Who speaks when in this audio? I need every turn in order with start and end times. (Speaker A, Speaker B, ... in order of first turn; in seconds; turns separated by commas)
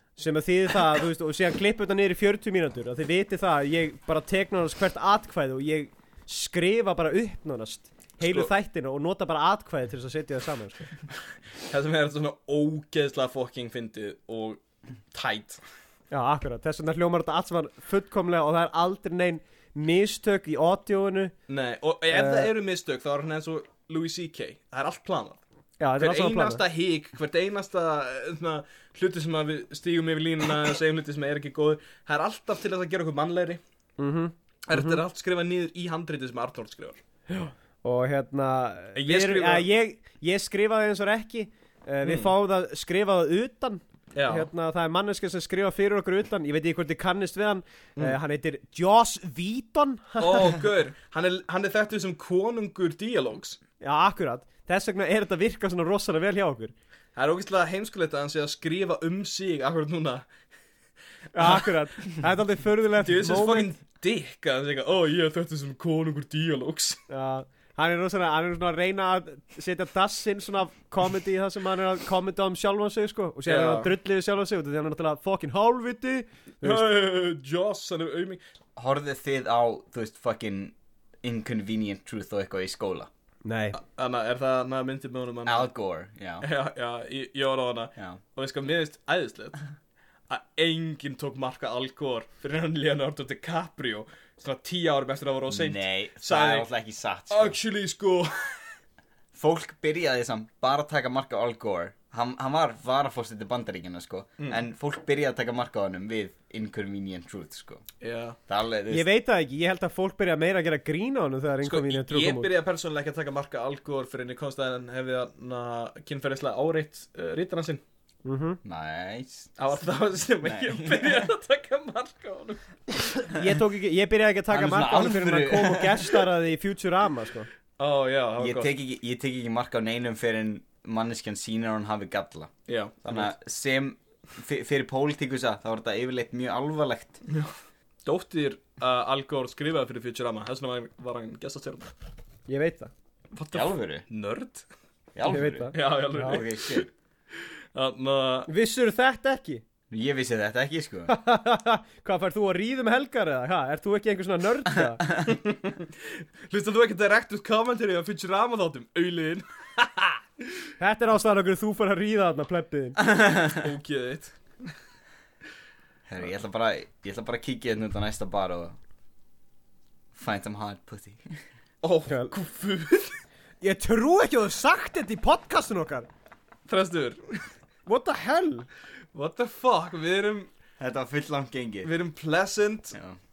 Speaker A: 0.2-10.8, Speaker B: 8.2-8.5, Speaker B: 11.7-14.6, Speaker B: 15.1-15.6, Speaker A: 16.1-21.3, Speaker B: 21.5-25.4, Speaker A: 22.1-22.5, Speaker A: 25.8-26.6, Speaker B: 26.0-33.6, Speaker A: 34.0-35.0, Speaker B: 34.7-37.0, Speaker A: 37.3-50.6, Speaker B: 39.0-39.7, Speaker B: 42.0-42.3, Speaker B: 44.1-44.5, Speaker B: 50.2-53.6, Speaker A: 53.8-56.7, Speaker B: 57.1-60.3, Speaker A: 61.3-63.7, Speaker B: 63.0-67.0, Speaker A: 67.1-76.8, Speaker B: 73.5-73.9, Speaker B: 76.6-78.4, Speaker C: 78.8-83.1, Speaker A: 83.4-83.8, Speaker B: 83.7-85.7, Speaker C: 85.4-86.5, Speaker B: 86.4-89.6, Speaker B: 90.3-96.7, Speaker C: 95.5-97.5, Speaker B: 97.3-98.7, Speaker C: 99.3-107.8, Speaker B: 108.0-108.4, Speaker C: 108.5-109.0, Speaker A: 108.9-112.5, Speaker B: 111.6-117.8, Speaker A: 118.2-118.6, Speaker C: 118.6-119.5, Speaker B: 119.6-122.6, Speaker C: 120.4-121.2, Speaker A: 123.3-127.5, Speaker C: 124.5-126.1, Speaker B: 127.8-128.7, Speaker C: 128.4-132.5, Speaker B: 132.7-133.1, Speaker C: 133.0-137.2, Speaker B: 137.3-137.5, Speaker B: 138.0-141.9, Speaker A: 142.5-142.9, Speaker B: 143.3-144.7, Speaker C: 143.5-144.0, Speaker C: 145.1-146.9, Speaker A: 145.2-146.4, Speaker B: 145.7-146.9, Speaker B: 147.7-148.5, Speaker A: 148.5-149.6, Speaker C: 149.9-151.1, Speaker A: 151.1-155.1, Speaker C: 155.1-155.3, Speaker B: 155.3-160.4, Speaker A: 160.8-163.0, Speaker C: 163.0-163.7, Speaker B: 163.4-164.7, Speaker C: 166.1-168.8, Speaker C: 170.1-171.4, Speaker B: 171.8-173.2, Speaker A: 173.6-176.1, Speaker B: 176.7-177.4, Speaker A: 177.8-178.7, Speaker B: 179.1-180.5, Speaker C: 180.8-181.9, Speaker B: 181.8-183.0